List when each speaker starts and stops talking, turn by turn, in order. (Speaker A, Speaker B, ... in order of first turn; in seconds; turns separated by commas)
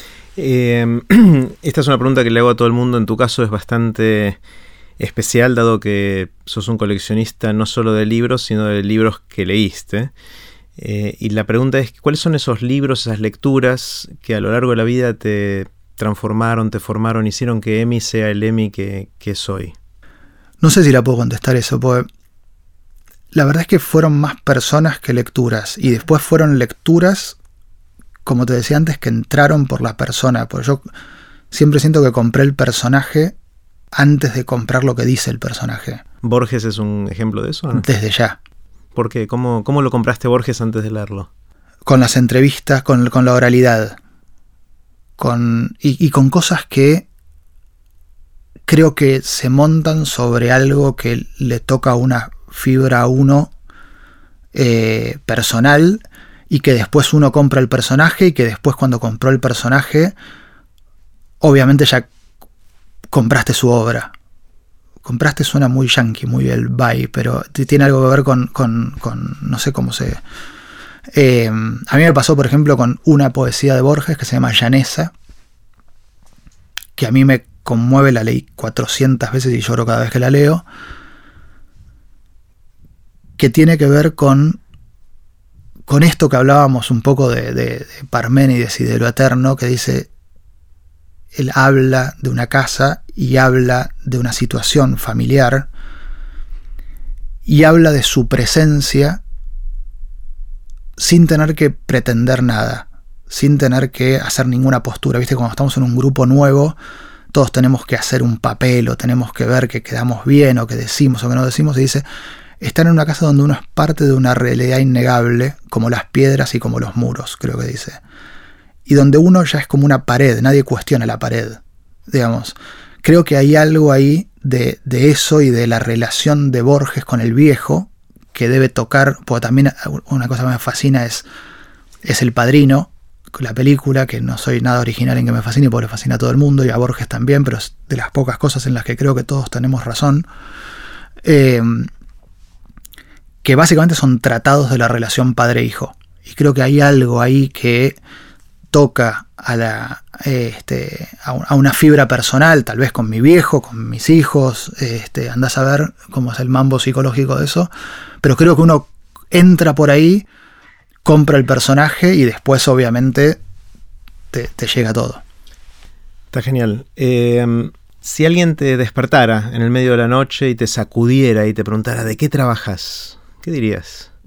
Speaker A: 0.3-4.4, Speaker A: 5.0-10.1, Speaker A: 10.8-19.7, Speaker B: 20.6-22.1, Speaker B: 23.3-27.4, Speaker B: 28.2-30.9, Speaker B: 31.5-33.3, Speaker B: 33.9-36.0, Speaker A: 36.2-37.9, Speaker B: 37.7-38.4, Speaker A: 38.9-41.3, Speaker B: 41.9-44.0, Speaker B: 45.2-47.0, Speaker B: 48.7-53.5, Speaker B: 54.5-60.1, Speaker B: 61.4-62.1, Speaker B: 63.1-64.1, Speaker B: 65.0-70.2, Speaker B: 71.1-75.1, Speaker B: 77.0-80.6, Speaker B: 83.4-84.6, Speaker B: 85.9-90.1, Speaker B: 91.3-95.7, Speaker B: 97.5-99.2, Speaker B: 101.0-106.8, Speaker B: 107.3-112.0, Speaker B: 112.6-118.0, Speaker B: 118.8-131.2, Speaker B: 132.0-140.3, Speaker B: 141.2-141.9, Speaker B: 143.4-148.0, Speaker B: 148.7-157.7, Speaker B: 158.2-160.2, Speaker B: 161.0-163.4, Speaker B: 164.3-165.2, Speaker A: 166.3-174.1